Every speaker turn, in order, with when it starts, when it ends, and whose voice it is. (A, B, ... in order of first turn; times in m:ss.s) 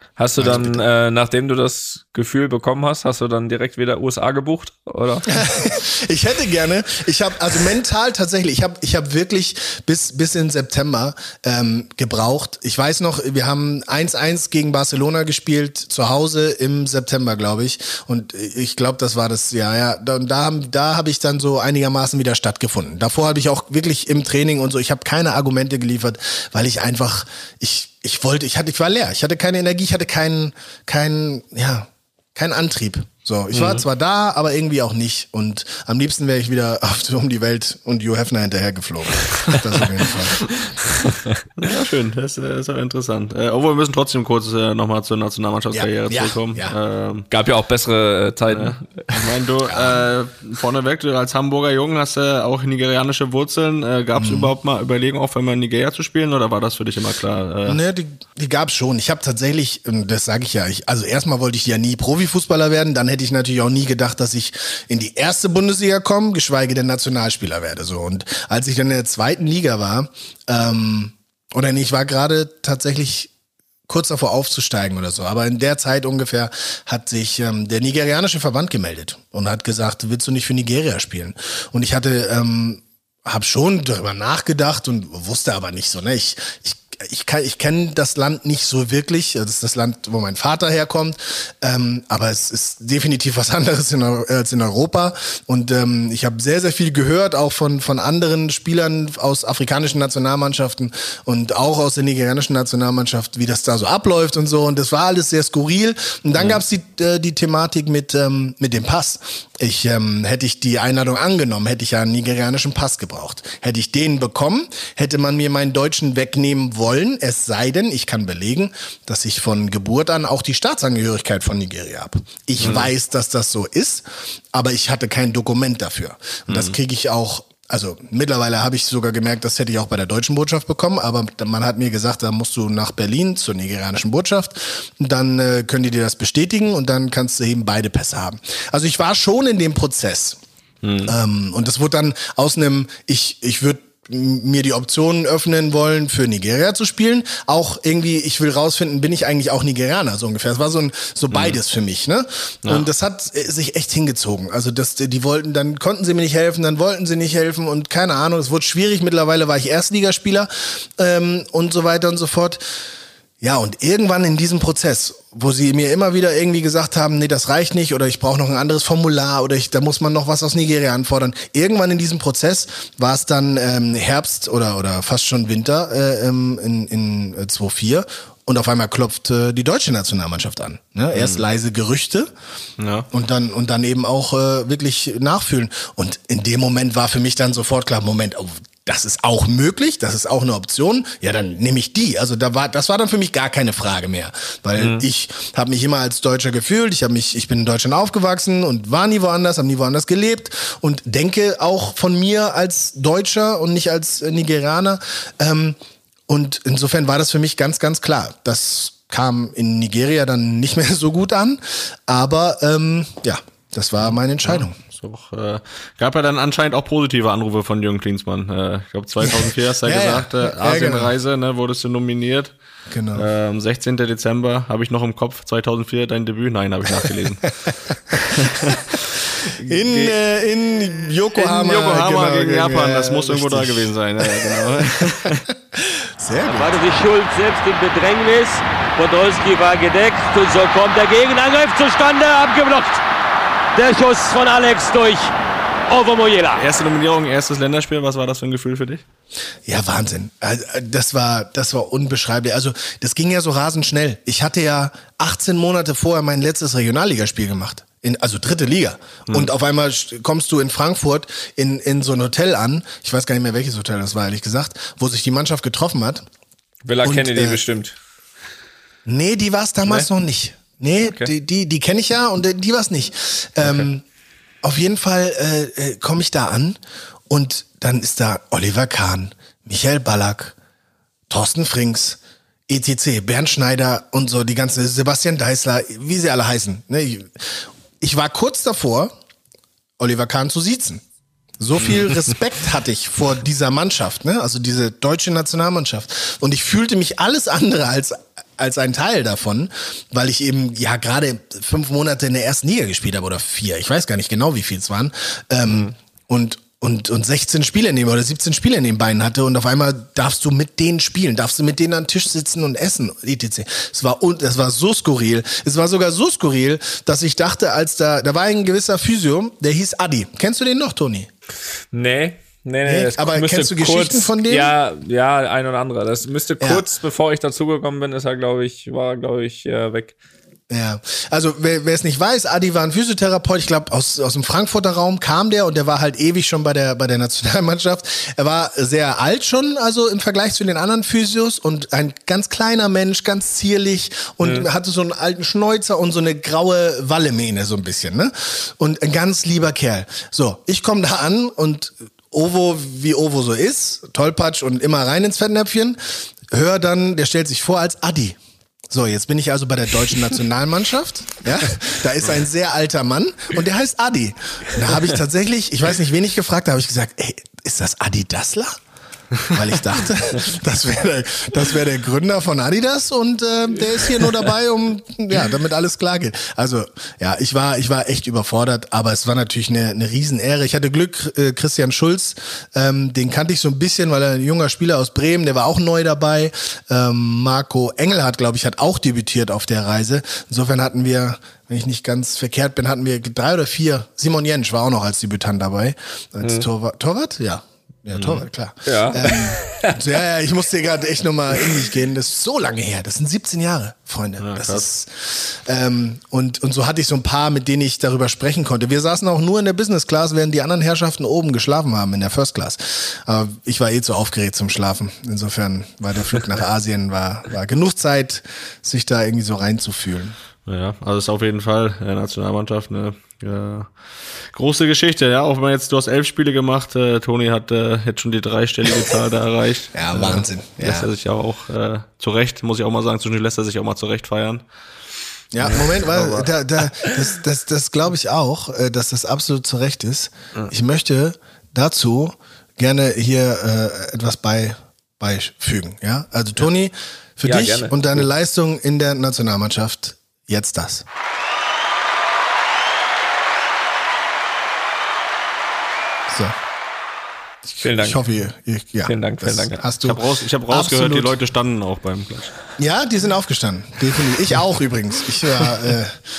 0:00.2-0:05.3 A
0:00.4-0:00.8 B
0:05.3-0:40.4 B
0:41.6-0:47.3 C
0:45.7-0:46.7 B
0:47.3-0:49.0 A
0:48.5-0:57.8 C
0:49.7-0:50.0 B
0:54.2-0:54.5 B
0:57.7-1:13.3 B
1:13.9-2:20.4 B
2:02.6-2:02.9 C
2:06.5-2:06.7 C
2:20.8-2:21.1 C
2:21.0-2:42.6 B
2:31.3-2:31.6 C
2:43.4-3:02.3 B
3:01.1-3:01.4 C
3:02.8-3:03.1 C
3:03.1-3:25.8 B
3:14.8-3:15.0 A
3:26.3-3:34.7 B
3:34.0-3:42.5 C
3:39.2-3:41.1 B
3:42.9-3:43.2 B
3:43.1-3:47.6 C
3:47.6-3:48.2 B
3:48.3-3:48.8 C
3:49.6-3:50.1 C
3:49.6-3:56.8 B
3:51.4-3:55.4 C
3:56.5-4:03.0 D
4:03.8-4:05.3 D
4:05.9-4:06.6 D
4:06.5-4:09.0 C
4:09.6-4:26.2 B
4:26.8-4:28.0 A
4:27.0-4:27.6 B
4:29.0-4:34.0 B
4:31.0-4:31.3 A
4:33.6-4:33.9 A
4:34.6-4:40.5 B
4:41.3-4:49.1 B
4:50.0-4:51.0 B
4:51.6-5:21.3 B
5:05.7-5:05.9 A
5:21.9-5:30.1 A
5:22.8-5:24.7 B
5:30.7-5:56.0 B
5:44.4-5:44.7 A
5:56.5-5:58.4 B
5:58.9-6:08.8 B
6:09.5-7:00.4 B
6:36.4-6:36.7 A
6:38.1-6:38.4 C
6:38.8-6:40.0 A
6:44.4-6:44.9 C
7:00.6-7:03.9 C
7:04.5-7:14.6 C
7:10.0-7:11.1 B
7:15.5-7:31.0 B
7:15.7-7:16.5 A
7:27.4-7:28.2 A
7:36.3-7:36.6 B
7:37.7-7:41.4 B
7:37.8-7:38.2 A
7:39.0-7:39.8 A
7:40.0-7:42.6 C
7:42.8-7:46.2 B